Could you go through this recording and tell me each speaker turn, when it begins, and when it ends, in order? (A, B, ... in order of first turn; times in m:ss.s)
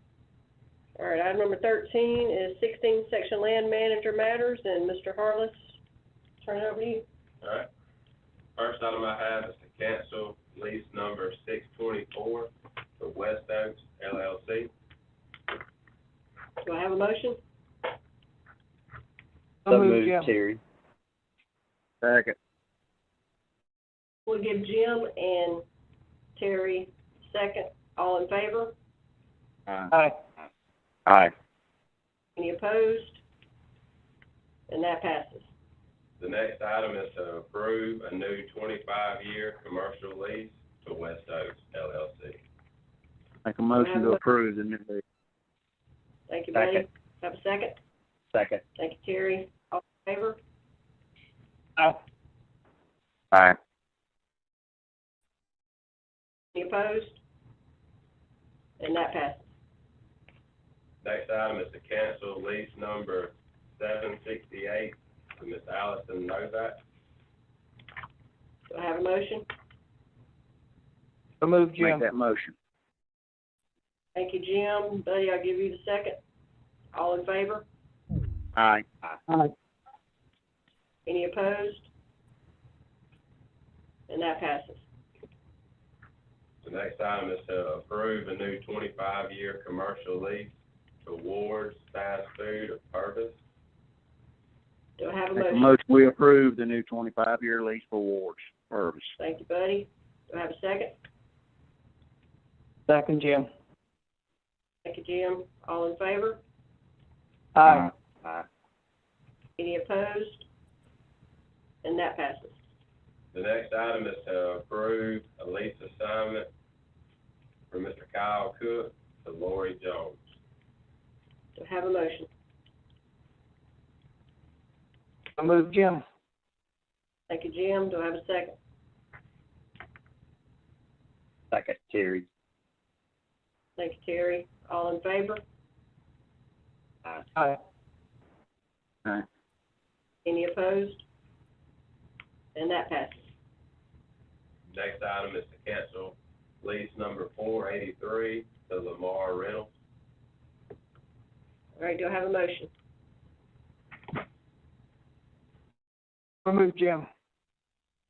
0:01.0-0:05.6 A
0:06.4-0:07.0 A
0:07.4-0:07.7 B
0:08.6-0:14.7 B
0:16.6-0:17.4 A
0:19.7-0:20.3 C
0:19.7-0:20.6 D
0:22.0-0:22.3 D
0:24.3-0:25.6 A
0:26.4-0:28.8 A
0:29.9-0:30.2 C
0:32.4-0:33.2 A
0:34.7-0:35.5 A
0:36.2-0:42.4 B
0:43.4-0:45.0 D
0:43.8-0:44.2 A
0:46.3-0:47.8 A
0:48.8-0:50.4 A
0:56.6-0:57.2 A
0:58.8-0:59.5 A
1:01.0-1:06.8 B
1:08.7-1:09.5 A
1:11.4-1:12.0 C
1:11.8-1:12.5 D
1:14.2-1:16.2 A
1:16.9-1:17.6 A
1:18.6-1:19.1 D
1:21.1-1:21.9 A
1:24.1-1:24.8 A
1:26.6-1:33.4 B
1:35.0-1:35.7 A
1:35.4-1:39.1 D
1:39.2-1:41.0 A
1:42.9-1:43.5 C
1:44.8-1:46.4 A
1:47.6-1:47.9 C
1:49.6-1:50.4 A
1:51.8-1:52.6 A
1:53.3-1:56.5 B
1:57.7-2:00.2 B
2:01.6-2:02.3 A
2:05.4-2:06.0 C
2:07.3-2:08.6 A
2:11.5-2:12.2 D
2:13.8-2:15.4 A
2:20.2-2:21.0 A
2:22.6-2:23.3 A
2:24.7-2:29.7 B
2:31.8-2:32.7 A
2:36.4-2:37.1 C